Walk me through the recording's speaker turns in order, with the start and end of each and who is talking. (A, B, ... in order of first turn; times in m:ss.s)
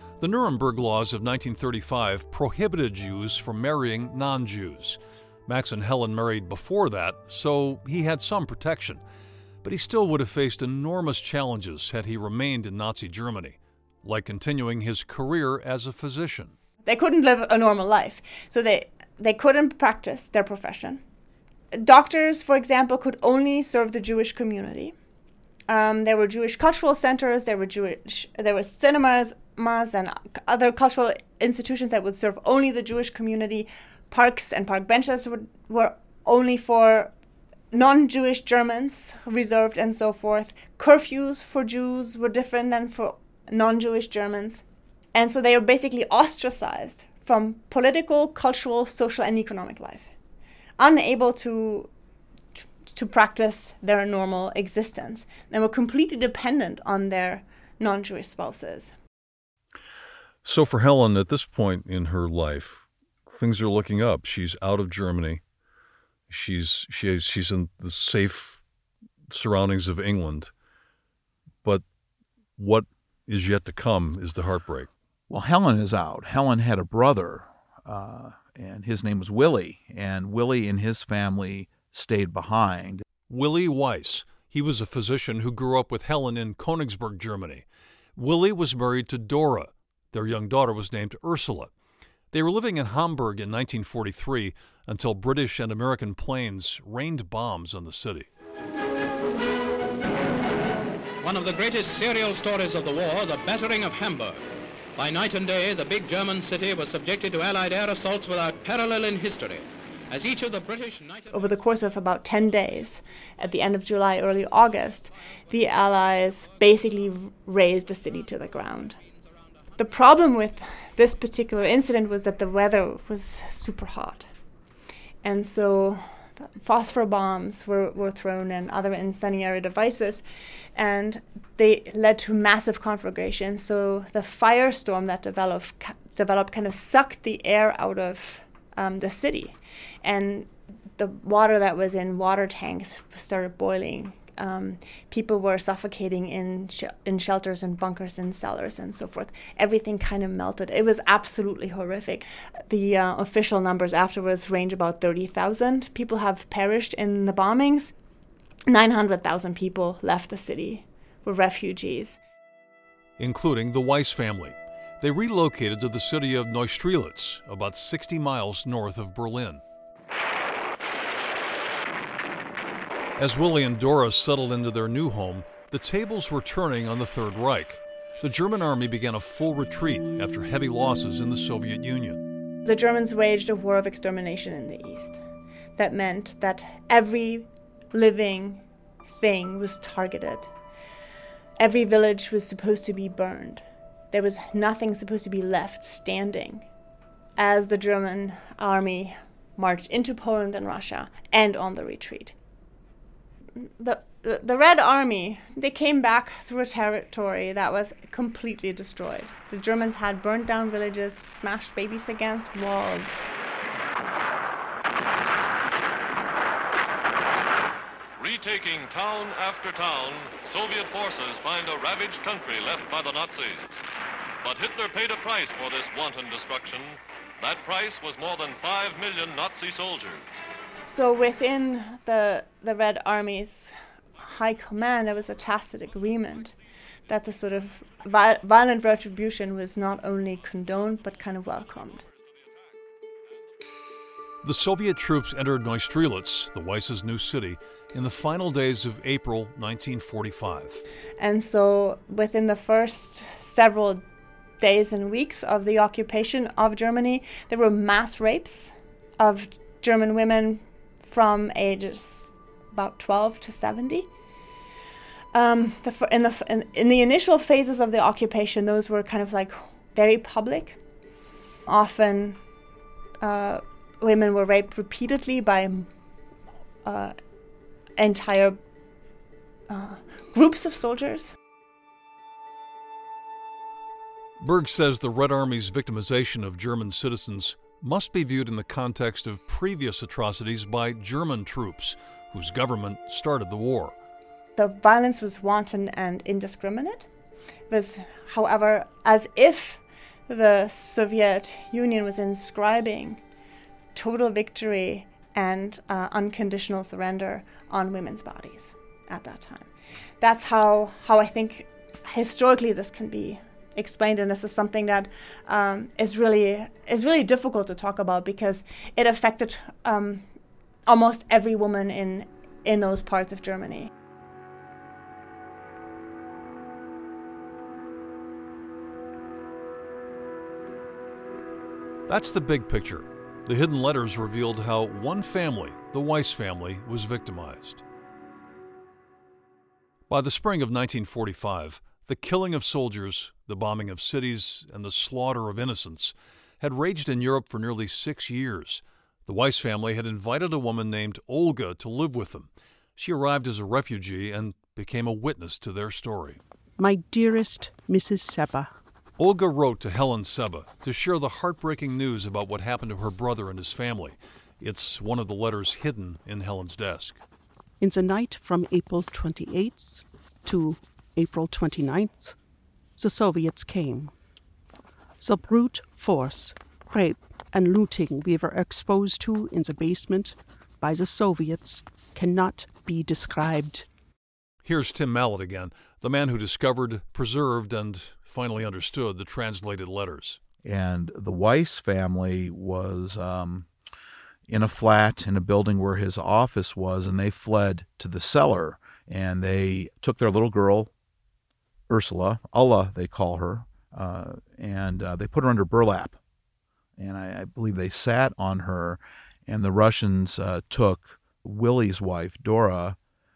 0:00.2-0:09.0 A
0:09.6-0:16.5 A
0:16.8-0:21.0 B
0:21.7-0:24.9 B
0:25.7-0:37.1 B
0:37.7-0:44.6 B
0:45.1-0:50.1 B
0:50.8-0:51.9 B
0:52.9-0:58.9 B
1:00.4-1:05.4 A
1:06.3-1:08.6 A
1:09.3-1:10.5 A
1:12.6-1:14.9 A
1:15.3-1:23.0 C
1:23.3-1:27.6 A
1:28.2-1:31.7 A
1:32.3-1:38.3 A
1:41.2-1:44.4 D
1:45.0-1:51.3 D
1:51.3-1:59.0 B
1:59.8-2:04.2 B
2:05.2-2:10.2 B
2:10.8-2:37.9 B
2:38.7-2:42.2 B
2:43.2-2:49.6 A
2:53.2-3:02.2 A
3:02.7-3:05.2 B
3:05.8-3:10.5 B
3:11.6-3:16.7 B
3:17.4-3:22.3 B
3:23.6-3:33.2 B
3:38.2-3:43.7 E
3:44.4-3:50.2 E
3:50.8-3:56.5 B
3:57.1-4:02.0 B
4:04.4-4:10.8 A
4:11.2-4:14.0 B
4:14.6-4:24.1 B
4:25.3-4:30.8 B
4:31.7-4:32.4 B
4:33.2-4:35.9 B
4:36.8-4:37.2 B
4:38.0-4:38.6 B
4:39.7-4:41.3 B
4:44.4-4:54.0 A
4:54.6-4:57.0 B
4:57.7-5:03.2 B
5:04.0-5:20.2 B
5:20.9-5:23.9 B
5:32.1-5:37.8 A
5:40.1-5:56.4 A
5:56.8-5:58.7 F
5:59.2-6:07.2 A
6:07.8-6:12.4 F
6:13.0-6:14.1 F
6:15.2-6:23.9 F
6:24.6-6:30.4 A
6:30.6-6:33.7 C
6:34.5-6:40.9 C
6:41.9-6:46.2 C
6:47.0-6:53.0 C